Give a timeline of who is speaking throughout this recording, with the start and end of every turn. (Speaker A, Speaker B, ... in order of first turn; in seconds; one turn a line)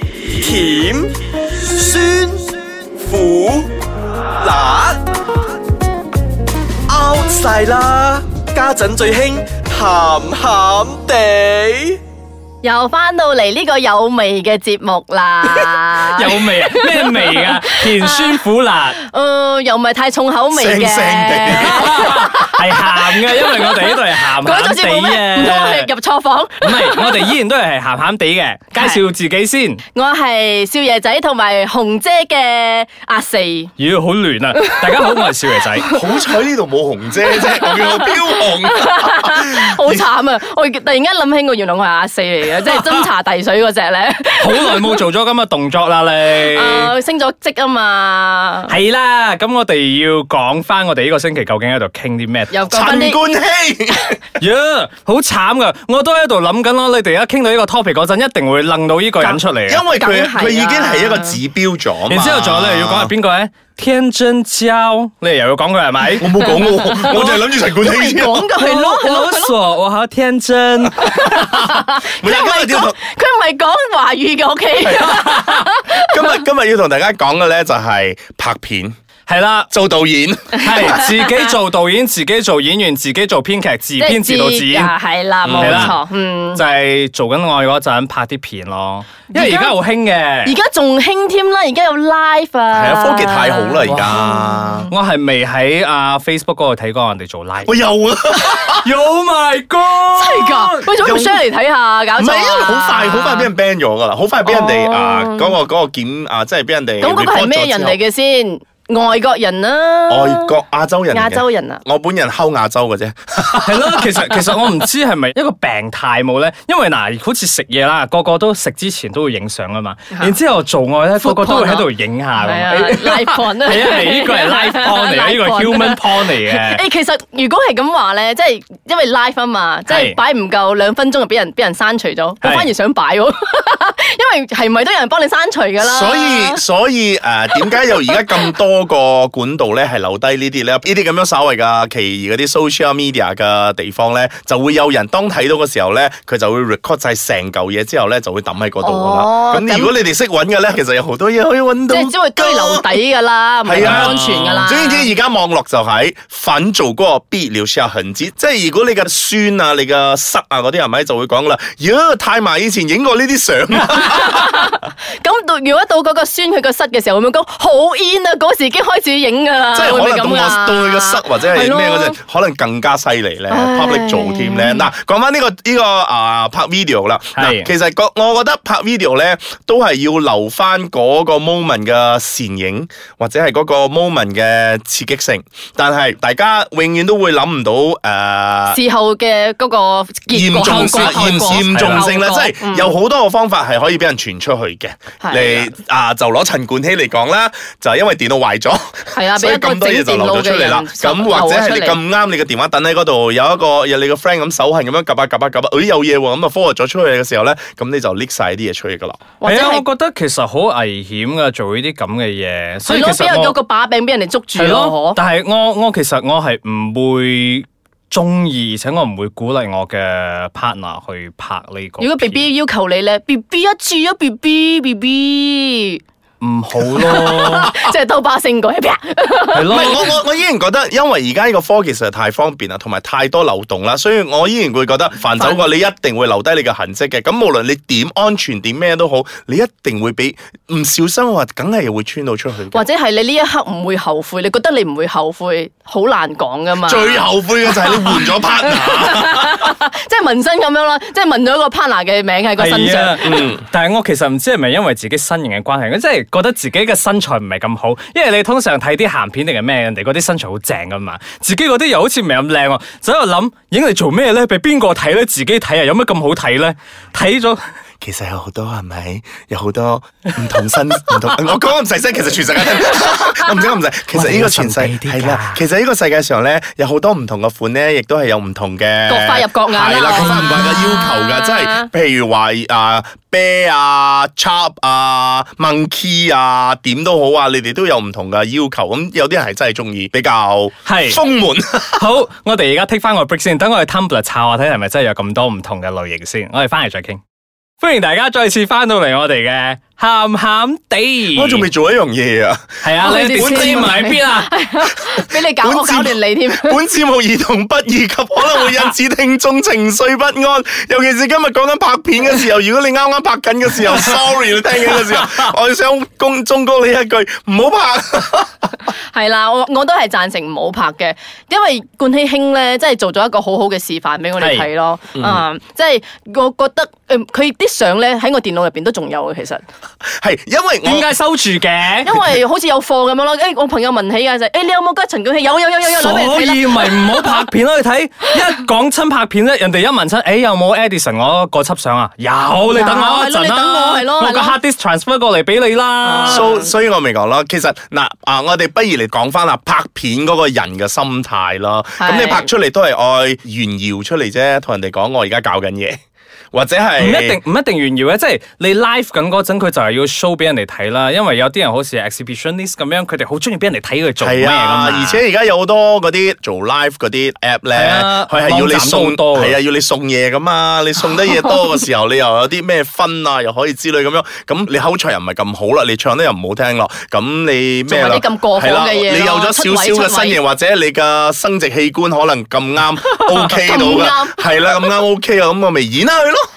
Speaker A: 0.3-1.1
Speaker A: 1.8-2.4
Speaker A: 3.0-3.7
Speaker A: 4.4-4.9
Speaker A: 6.9-12.0
Speaker B: 8.6-9.3
Speaker C: 12.6-18.4
Speaker D: 15.6-19.0
Speaker C: 19.0-27.3
Speaker B: 20.5-22.1
Speaker D: 21.5-25.9
Speaker D: 26.6-29.8
Speaker C: 29.9-33.7
Speaker D: 33.8-35.9
Speaker B: 35.9-40.1
Speaker C: 37.4-45.0
Speaker D: 42.6-43.0
Speaker D: 44.4-46.9
Speaker C: 46.4-48.8
Speaker D: 48.7-52.6
Speaker C: 52.5-53.2
Speaker B: 52.7-54.4
Speaker D: 54.4-59.8
Speaker C: 59.2-61.4
Speaker B: 59.7-63.1
Speaker D: 62.1-67.5
Speaker B: 66.2-68.5
Speaker C: 66.4-67.1
Speaker C: 67.7-69.5
Speaker D: 68.5-71.5
Speaker C: 70.9-76.4
Speaker B: 72.2-73.0
Speaker D: 74.8-75.7
Speaker B: 76.0-79.0
Speaker D: 79.3-79.7
Speaker B: 79.7-81.0
Speaker D: 80.6-84.9
Speaker C: 80.6-81.4
Speaker C: 84.0-86.6
Speaker B: 85.4-85.9
Speaker D: 85.5-86.0
Speaker D: 86.5-90.5
Speaker C: 89.3-89.7
Speaker C: 90.4-94.9
Speaker B: 92.7-94.9
Speaker D: 93.9-94.1
Speaker D: 94.9-97.7
Speaker B: 97.7-98.8
Speaker D: 98.4-100.8
Speaker C: 100.1-103.5
Speaker B: 100.9-101.4
Speaker B: 102.2-108.0
Speaker C: 104.4-105.6
Speaker C: 107.0-110.5
Speaker B: 110.1-114.4
Speaker C: 111.1-111.8
Speaker D: 113.6-126.8
Speaker C: 120.1-120.4
Speaker C: 121.2-136.6
Speaker D: 129.9-130.2
Speaker D: 132.4-132.7
Speaker B: 135.8-153.0
Speaker C: 137.5-138.2
Speaker C: 148.8-149.9
Speaker C: 151.9-155.1
Speaker B: 153.6-164.6
Speaker D: 153.8-154.6
Speaker C: 163.9-172.2
Speaker B: 169.7-188.8
Speaker C: 173.5-174.8
Speaker D: 177.3-177.7
Speaker C: 188.7-192.9
Speaker B: 190.3-209.2
Speaker D: 190.6-192.1
Speaker C: 195.2-195.7
Speaker C: 199.1-202.0
Speaker C: 209.4-209.8
Speaker D: 209.4-213.6
Speaker C: 212.8-215.2
Speaker D: 214.6-222.4
Speaker C: 222.0-226.0
Speaker D: 226.4-227.7
Speaker B: 227.0-227.7
Speaker C: 227.0-229.9
Speaker D: 229.5-230.1
Speaker B: 229.7-242.8
Speaker C: 235.3-235.6
Speaker C: 242.7-253.5
Speaker B: 246.8-249.7
Speaker D: 252.6-267.6
Speaker B: 253.2-253.6
Speaker B: 268.0-292.0
Speaker D: 274.1-275.6
Speaker C: 279.1-281.9
Speaker D: 280.1-281.0
Speaker D: 290.8-291.2
Speaker D: 292.0-297.2
Speaker D: 297.8-301.6
Speaker B: 301.3-304.1
Speaker D: 302.8-304.5
Speaker C: 303.0-306.8
Speaker B: 304.9-318.7
Speaker D: 314.9-315.5
Speaker C: 318.9-329.6
Speaker D: 324.4-324.6
Speaker B: 325.1-325.4
Speaker B: 330.2-331.1
Speaker D: 330.8-332.2
Speaker C: 332.0-337.4
Speaker D: 335.8-346.4
Speaker C: 342.6-344.6
Speaker C: 346.0-346.7
Speaker B: 346.2-356.0
Speaker C: 352.0-352.5
Speaker B: 356.5-357.4
Speaker D: 357.0-365.2
Speaker B: 364.2-386.5
Speaker D: 367.7-369.6
Speaker C: 377.9-380.4
Speaker D: 383.3-383.5
Speaker C: 383.4-384.9